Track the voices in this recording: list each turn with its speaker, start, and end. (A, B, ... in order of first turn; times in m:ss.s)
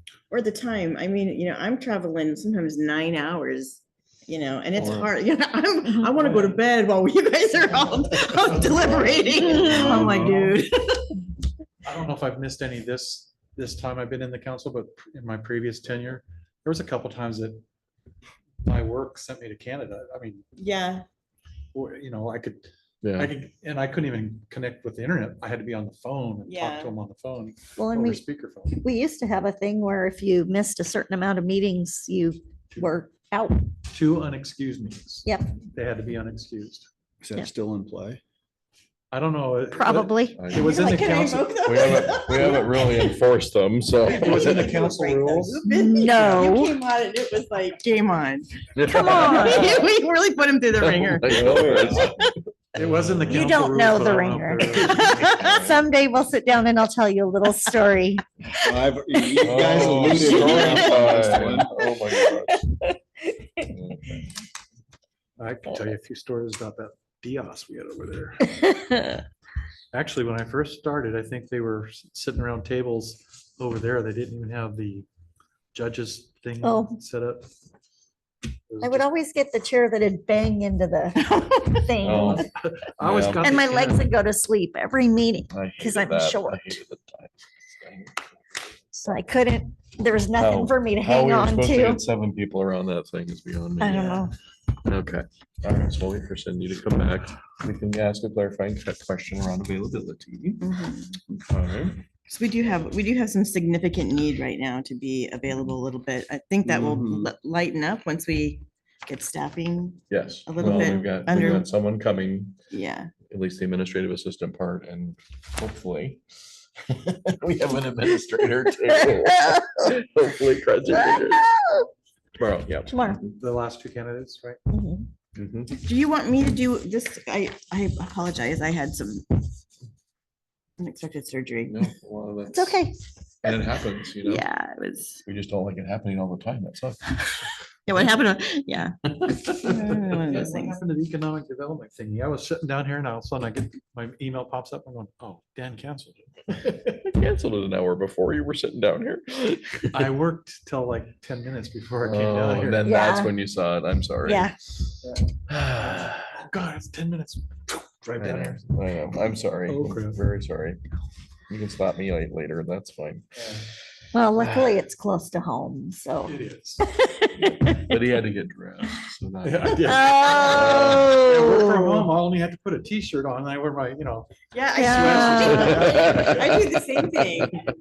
0:00.3-0:11.2 A
0:04.8-0:05.0 B
0:06.2-0:06.6 C
0:08.3-0:10.5 C
0:09.8-0:10.1 D
0:11.8-0:17.6 C
0:18.6-0:20.4 C
0:20.6-0:21.0 A
0:21.7-0:28.8 C
0:23.0-0:23.3 B
0:26.4-0:26.9 A
0:27.8-0:28.2 E
0:28.8-0:33.6 E
0:33.9-0:36.9 C
0:35.2-0:35.5 E
0:37.2-0:38.2 D
0:39.1-0:41.9 C
0:39.7-0:40.6 E
0:40.4-0:40.8 B
0:40.6-0:43.1 A
0:41.6-0:44.8 B
0:44.0-0:52.2 A
0:44.1-0:45.6 C
0:45.7-0:46.8 E
0:46.2-0:46.4 C
0:48.7-0:49.9 B
0:48.9-0:49.8 E
0:50.8-0:52.2 B
0:51.3-0:52.0 D
0:52.7-0:55.4 C
0:53.3-0:58.2 E
0:54.7-0:55.4 A
0:55.4-0:55.8 B
0:58.6-1:01.7 D
0:59.4-1:02.6 B
0:59.4-1:01.2 E
1:01.8-1:02.8 E
1:03.7-1:04.2 B
1:05.4-1:08.5 C
1:08.6-1:09.1 E
1:09.9-1:15.0 C
1:15.7-1:17.5 C
1:16.6-1:17.0 E
1:18.7-1:19.1 C
1:18.8-1:22.5 E
1:22.0-1:22.4 B
1:22.2-1:24.1 C
1:23.0-1:23.5 B
1:23.4-1:26.8 E
1:25.5-1:28.2 B
1:29.0-1:32.0 E
1:30.4-1:34.3 B
1:33.8-1:34.3 E
1:34.8-1:40.7 B
1:40.6-1:41.2 A
1:41.3-1:42.0 B
1:42.3-1:51.7 A
1:46.6-1:47.3 D
1:50.1-1:52.6 B
1:52.7-1:53.1 A
1:53.2-1:56.2 B
1:56.9-2:01.5 B
2:01.0-2:01.6 E
2:02.4-2:03.3 B
2:02.8-2:03.2 E
2:03.3-2:04.6 C
2:04.7-2:05.1 E
2:05.4-2:05.8 B
2:05.7-2:09.5 A
2:10.8-2:11.9 A
2:11.6-2:12.8 B
2:12.5-2:12.9 E
2:13.4-2:14.4 B
2:13.5-2:15.2 A
2:15.2-2:17.2 B
2:17.9-2:18.9 A
2:19.4-2:19.7 B
2:19.5-2:20.8 A
2:20.0-2:26.2 C
2:26.6-2:30.0 B
2:29.9-2:32.9 C
2:32.0-2:34.5 B
2:32.8-2:33.3 E
2:34.2-2:34.6 E
2:35.5-2:38.6 C
2:35.6-2:36.1 B
2:38.2-2:40.8 B
2:39.7-2:40.2 C
2:41.5-2:43.2 B
2:43.4-2:43.6 C
2:44.1-2:48.0 E
2:46.2-2:46.8 C
2:47.9-2:51.2 B
2:49.4-2:55.8 C
2:49.7-2:52.0 E
2:54.5-2:57.5 A
2:54.7-2:55.9 E
2:55.4-2:57.2 B